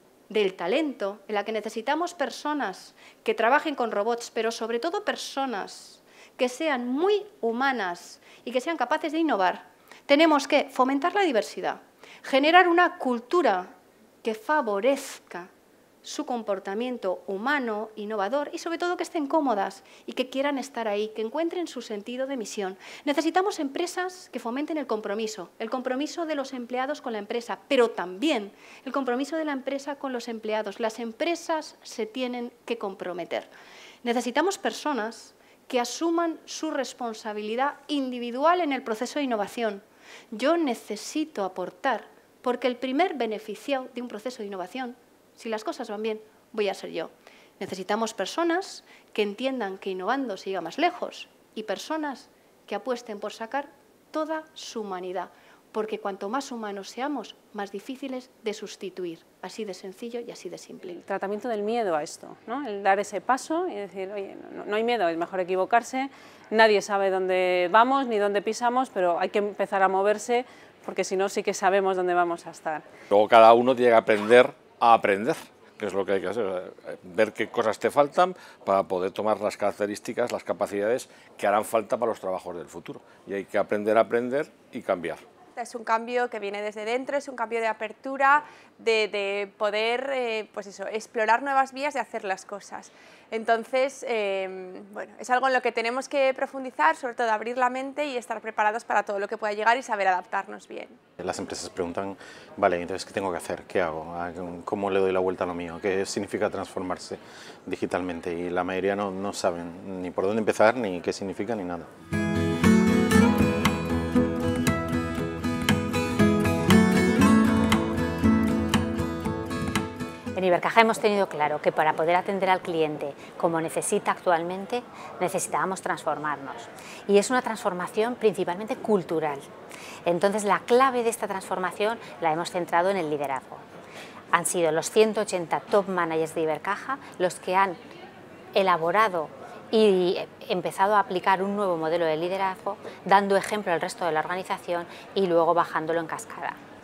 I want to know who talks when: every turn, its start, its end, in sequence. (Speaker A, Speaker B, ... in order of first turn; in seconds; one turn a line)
Speaker A: 0.3-15.5
Speaker A: 16.0-33.5
Speaker A: 34.0-61.0
Speaker B: 60.9-72.8
Speaker C: 73.1-85.2
Speaker D: 85.6-101.0
Speaker E: 101.2-111.9
Speaker F: 120.3-129.5
Speaker F: 130.0-133.6
Speaker F: 134.3-137.8
Speaker F: 138.5-146.6